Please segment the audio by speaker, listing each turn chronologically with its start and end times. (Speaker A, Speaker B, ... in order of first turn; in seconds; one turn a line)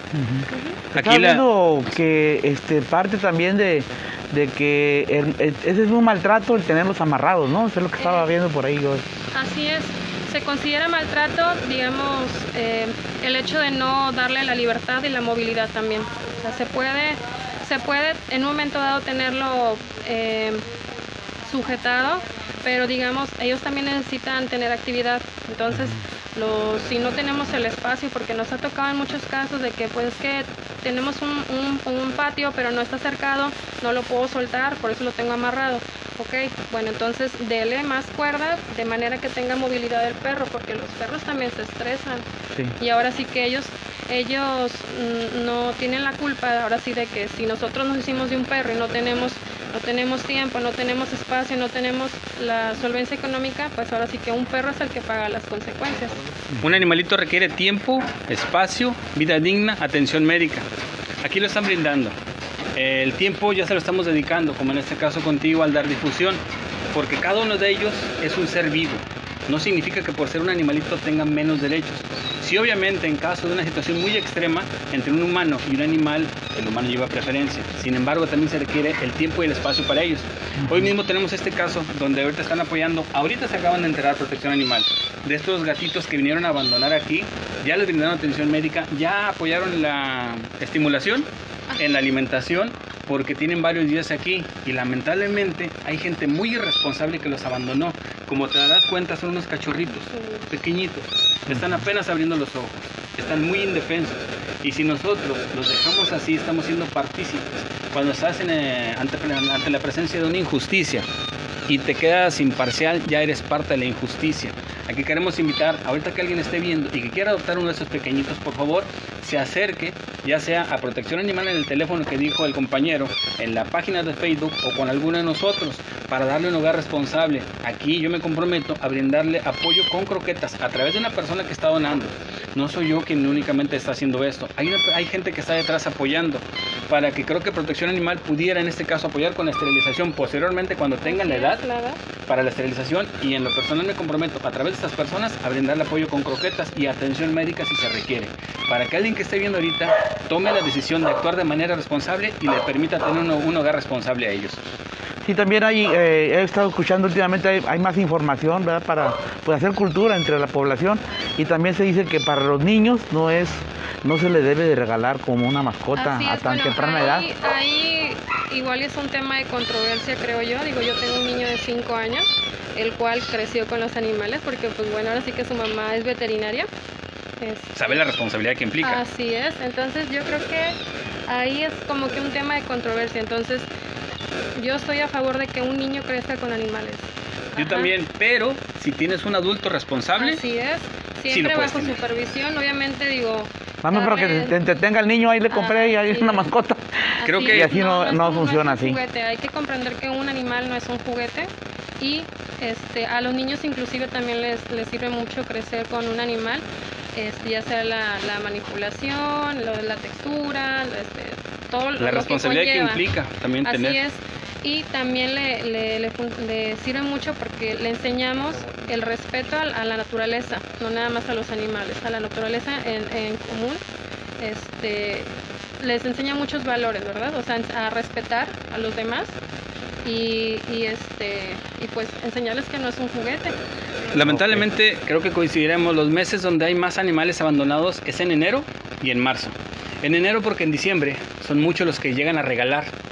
Speaker A: 0.1-9.0
Speaker B: 0.5-0.8
Speaker C: 0.9-1.4
Speaker B: 8.0-8.3
Speaker B: 9.3-20.7
Speaker B: 21.4-42.2
Speaker B: 42.8-56.3
Speaker C: 56.6-60.7
Speaker C: 61.2-62.1
Speaker C: 62.8-66.4
Speaker C: 66.9-111.1
Speaker B: 99.9-100.6
Speaker C: 111.7-141.6
Speaker B: 141.1-142.0
Speaker C: 142.3-154.6
Speaker A: 155.2-167.3
Speaker B: 165.9-172.2
Speaker B: 172.8-176.7
Speaker B: 177.4-178.0
Speaker C: 177.8-179.0
Speaker B: 178.8-180.8
Speaker B: 181.3-183.7
Speaker B: 184.6-187.9
Speaker C: 187.6-190.4
Speaker B: 190.2-194.6
Speaker C: 191.3-192.0
Speaker A: 193.8-199.0
Speaker B: 195.5-196.5
Speaker B: 197.2-213.1
Speaker C: 197.2-197.7
Speaker C: 212.0-214.0
Speaker B: 213.7-223.8
Speaker B: 224.4-229.4
Speaker B: 230.0-233.5
Speaker C: 234.1-242.9
Speaker A: 234.3-234.6